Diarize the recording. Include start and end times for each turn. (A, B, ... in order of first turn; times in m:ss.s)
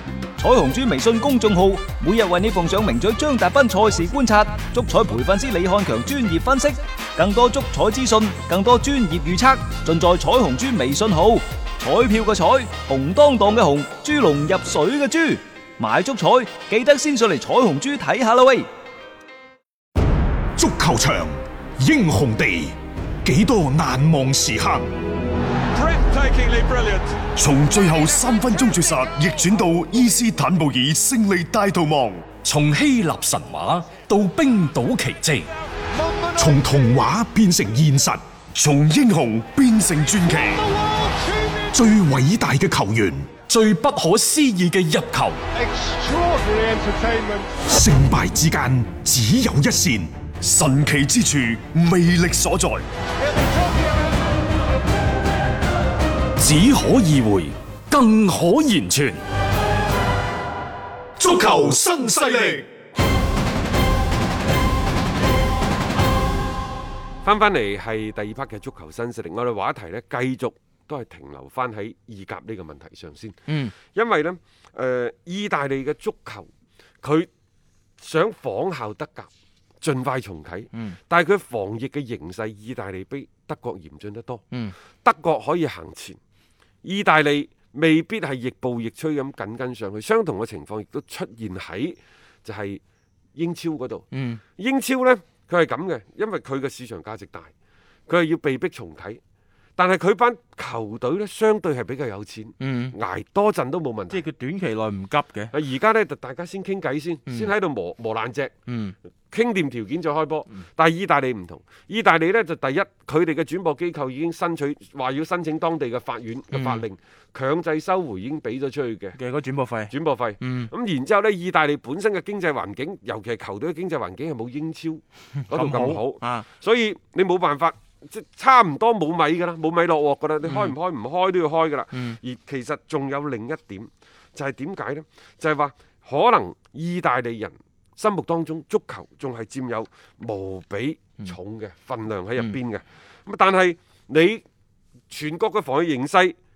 0:00.4-0:18.7 A
0:20.6-0:24.9 B
0:27.4-0:32.3 B
0:32.4-0:35.5 C
0:36.3-0:40.7 B
0:41.7-0:43.4 B
0:43.5-0:45.4 C
0:47.6-0:52.8 B
0:56.4-0:59.2 C
1:01.2-1:02.6 B
1:07.2-1:16.5 D
1:13.5-1:13.8 E
1:17.0-1:17.3 D
1:18.0-1:19.3 D
1:19.8-1:24.4 D
1:25.0-1:26.2 D
1:26.8-1:32.8 D
1:33.4-1:34.1 D
1:34.1-1:34.4 E
1:34.6-1:37.5 D
1:38.1-1:39.2 D
1:39.8-1:44.2 D
1:42.6-1:43.0 E
1:44.1-1:45.5 E
1:45.5-1:48.5 D
1:48.7-1:49.0 E
1:49.3-1:59.2 D
1:56.5-1:56.8 E
1:59.1-2:00.7 E
1:59.9-2:24.4 D
2:05.5-2:06.5 E
2:10.4-2:10.7 E
2:25.1-2:26.4 D